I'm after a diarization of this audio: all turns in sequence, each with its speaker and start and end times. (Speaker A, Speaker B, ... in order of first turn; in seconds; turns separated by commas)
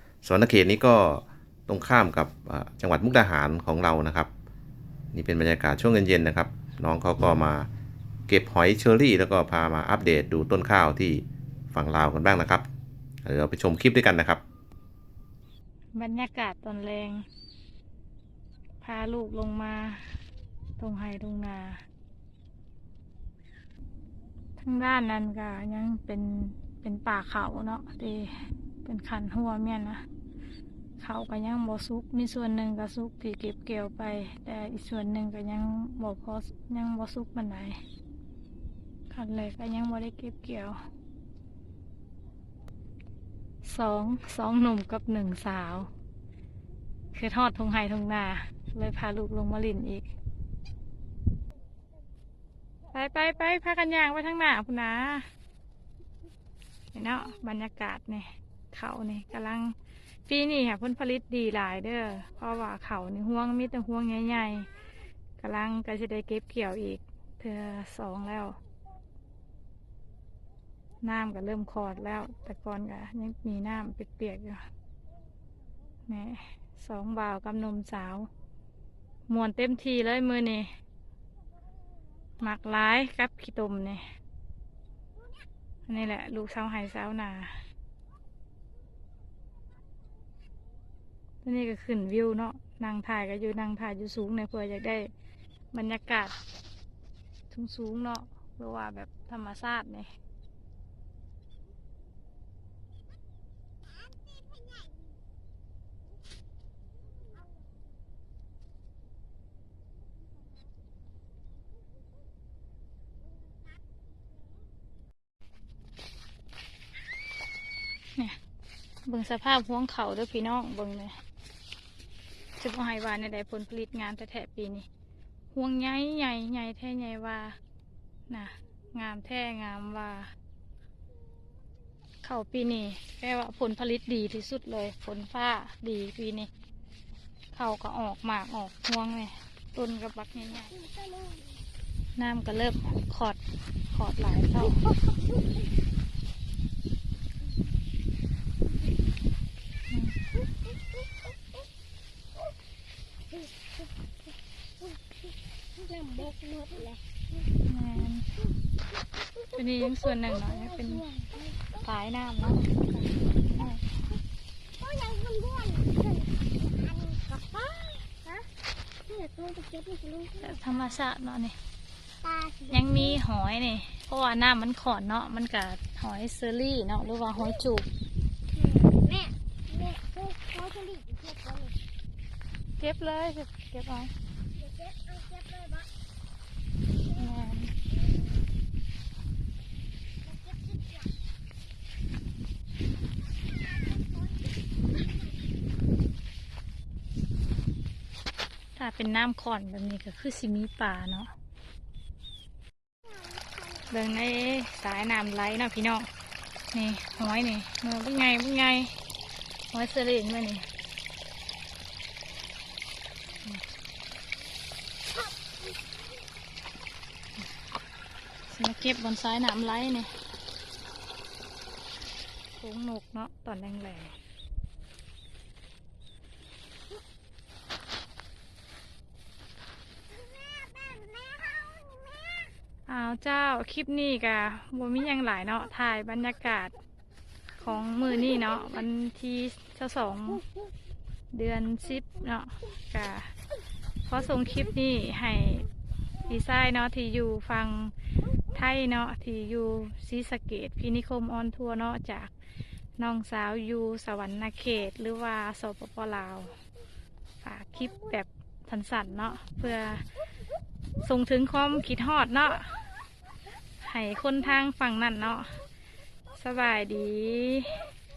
Speaker A: 0.2-4.3, Speaker A: 5.1-7.7, Speaker A: 8.3-12.7, Speaker A: 13.2-14.4, Speaker B: 15.9-17.2, Speaker B: 18.8-20.0, Speaker B: 20.8-21.8, Speaker B: 24.6-30.0, Speaker B: 31.0-37.8, Speaker B: 39.1-40.8, Speaker B: 43.6-45.9, Speaker B: 47.1-50.1, Speaker B: 52.9-55.3, Speaker B: 56.9-59.8, Speaker B: 60.3-64.7, Speaker B: 65.4-68.6, Speaker B: 71.0-74.6, Speaker B: 76.1-78.3, Speaker B: 79.3-80.7, Speaker B: 82.4-84.0, Speaker B: 85.9-87.6, Speaker B: 91.4-95.1, Speaker B: 95.7-96.3, Speaker B: 97.5-100.1, Speaker B: 119.1-121.2, Speaker B: 122.6-124.9, Speaker B: 125.5-127.6, Speaker B: 128.3-130.3, Speaker B: 132.2-136.5, Speaker B: 137.5-140.8, Speaker C: 140.7-141.5, Speaker B: 142.2-143.4, Speaker B: 143.9-144.8, Speaker B: 149.9-150.2, Speaker C: 155.8-157.0, Speaker B: 157.7-158.3, Speaker B: 159.5-161.1, Speaker B: 161.8-163.8, Speaker C: 164.8-168.5, Speaker C: 169.1-170.6, Speaker B: 170.4-171.6, Speaker C: 172.2-173.0, Speaker B: 172.7-177.9, Speaker C: 178.6-181.8, Speaker B: 182.8-184.1, Speaker C: 184.6-185.9, Speaker B: 187.1-187.7, Speaker C: 190.3-191.1, Speaker C: 193.7-194.5, Speaker B: 198.8-201.3, Speaker B: 203.9-206.1, Speaker B: 206.7-208.9, Speaker B: 209.7-210.7, Speaker B: 218.5-220.1, Speaker B: 222.6-224.2, Speaker C: 230.2-232.5, Speaker B: 232.9-236.7, Speaker B: 237.6-240.4, Speaker B: 241.3-243.3, Speaker B: 244.1-245.7, Speaker B: 246.2-247.9, Speaker B: 248.5-252.3, Speaker B: 253.0-256.6, Speaker B: 257.4-260.0, Speaker B: 261.0-262.8, Speaker B: 263.8-265.6, Speaker B: 266.3-267.8